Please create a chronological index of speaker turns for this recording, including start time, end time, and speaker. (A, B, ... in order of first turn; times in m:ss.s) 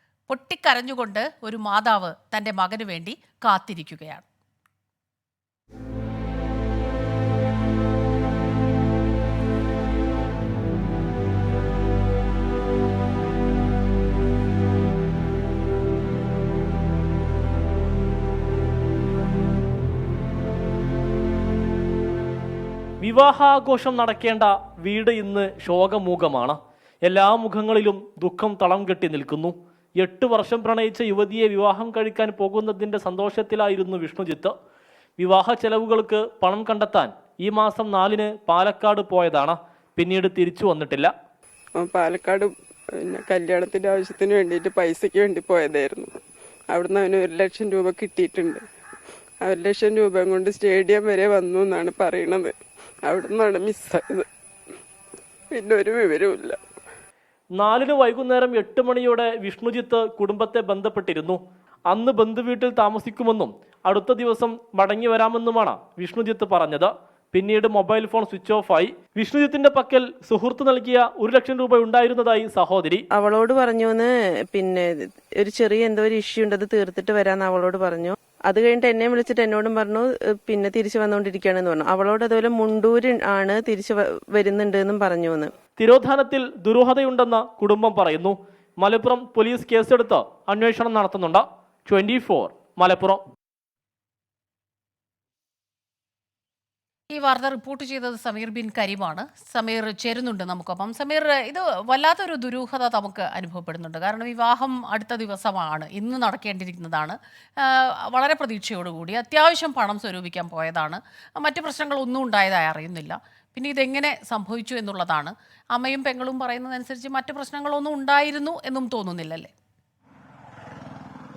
0:00.3-0:04.2 A
0:23.0-0:34.5 B
0:35.2-0:41.1 B
0:41.8-0:46.1 C
0:46.7-0:48.6 C
0:49.4-0:52.5 C
0:53.0-0:54.3 C
0:55.5-0:56.6 C
0:57.6-1:01.4 B
1:01.9-1:13.0 B
1:13.1-1:25.5 D
1:25.8-1:33.2 B
1:37.1-1:59.5 A